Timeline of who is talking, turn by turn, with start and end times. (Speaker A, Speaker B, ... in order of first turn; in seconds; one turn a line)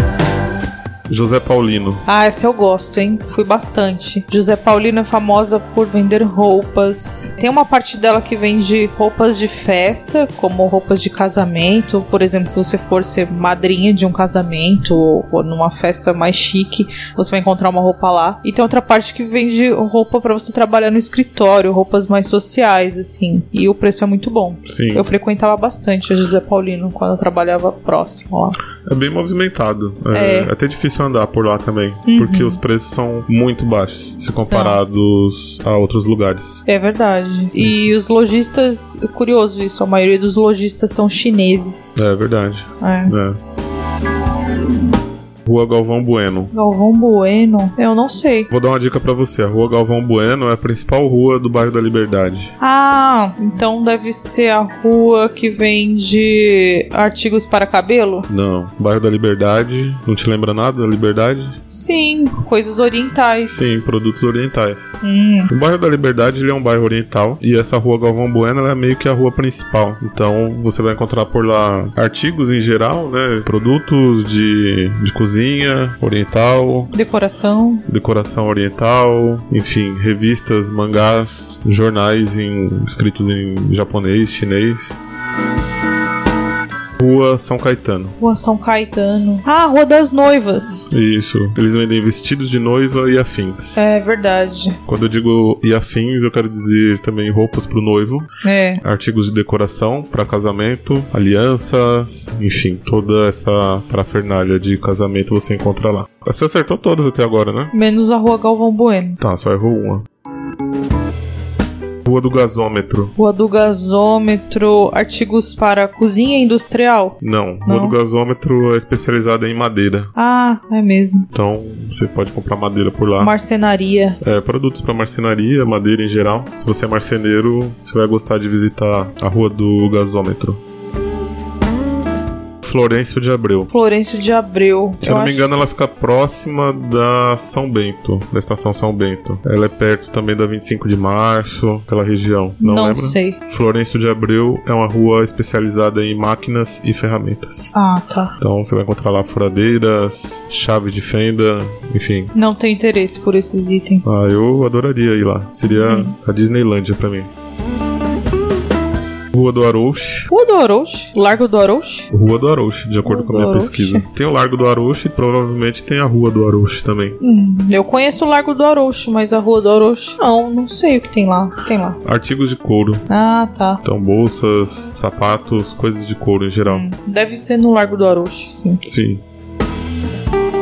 Speaker A: 1.1-2.0
Speaker B: 2.1-28.6
Speaker A: 24.6-25.1
Speaker A: 28.8-36.6
Speaker B: 30.1-30.5
Speaker B: 32.1-32.6
Speaker B: 34.4-34.8
Speaker B: 36.7-41.9
Speaker A: 42.0-43.4
Speaker B: 42.8-43.1
Speaker A: 45.5-46.5
Speaker B: 46.5-48.5
Speaker A: 48.5-52.5
Speaker B: 52.6-58.3
Speaker A: 58.3-61.6
Speaker B: 61.7-63.6
Speaker A: 63.5-76.9
Speaker B: 65.0-65.5
Speaker B: 76.9-77.8
Speaker A: 77.9-85.0
Speaker A: 87.0-88.2
Speaker B: 88.2-90.9
Speaker A: 90.9-93.8
Speaker B: 93.8-94.8
Speaker A: 94.9-98.3
Speaker B: 98.4-98.8
Speaker A: 98.8-107.7
Speaker B: 107.7-109.2
Speaker A: 109.2-110.0
Speaker A: 112.0-113.2
Speaker B: 113.2-118.0
Speaker A: 117.2-120.1
Speaker B: 120.2-121.3
Speaker A: 121.3-123.3
Speaker B: 123.2-124.2
Speaker A: 124.2-130.6
Speaker A: 132.6-133.7
Speaker B: 133.7-135.5
Speaker A: 135.0-147.7
Speaker B: 142.6-143.4
Speaker B: 147.7-148.3
Speaker A: 148.4-152.3
Speaker B: 152.3-154.2
Speaker A: 154.0-157.3
Speaker B: 155.7-156.2
Speaker A: 159.3-160.3
Speaker B: 160.3-162.1
Speaker A: 162.1-167.2
Speaker B: 163.0-164.1
Speaker B: 167.2-172.0
Speaker A: 172.0-173.1
Speaker B: 173.1-173.8
Speaker A: 173.8-176.9
Speaker B: 176.7-178.8
Speaker A: 178.8-179.2